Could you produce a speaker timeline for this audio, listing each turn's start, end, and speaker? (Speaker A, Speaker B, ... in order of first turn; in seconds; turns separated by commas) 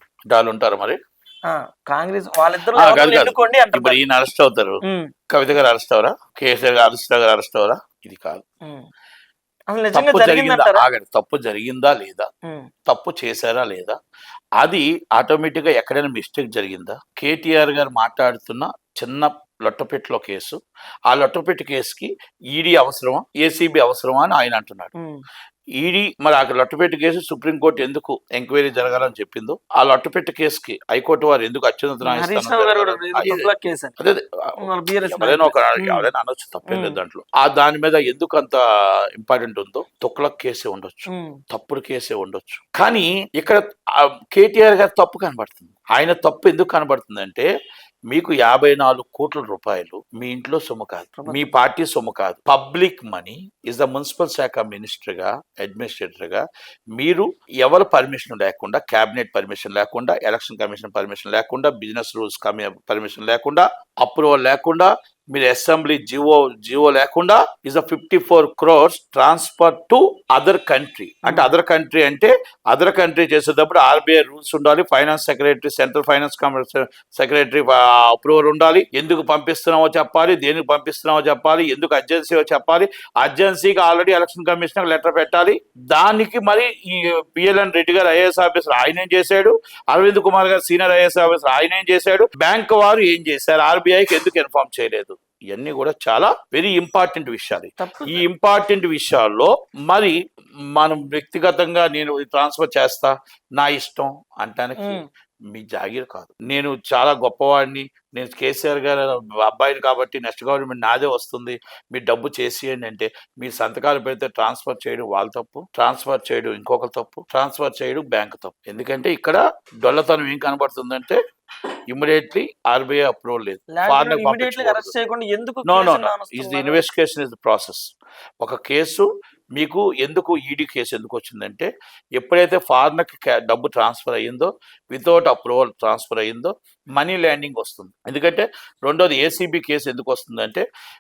Speaker A: 0.3-1.0, Speaker B: 1.5-4.0, Speaker A: 2.8-4.8, Speaker A: 5.3-8.4, Speaker B: 9.7-10.8, Speaker A: 9.9-12.3, Speaker A: 12.9-14.0, Speaker A: 14.6-20.6, Speaker A: 21.1-24.9, Speaker A: 25.8-33.5, Speaker B: 32.0-33.9, Speaker B: 34.6-36.1, Speaker A: 35.0-38.6, Speaker B: 36.7-37.0, Speaker A: 39.2-47.5, Speaker B: 41.1-41.4, Speaker A: 48.1-56.5, Speaker B: 51.2-51.5, Speaker A: 57.0-100.2, Speaker B: 71.3-71.5, Speaker B: 97.8-98.2, Speaker A: 100.8-105.0, Speaker A: 105.5-121.2, Speaker A: 121.9-124.9, Speaker B: 123.7-126.8, Speaker A: 125.7-127.8, Speaker A: 128.4-140.7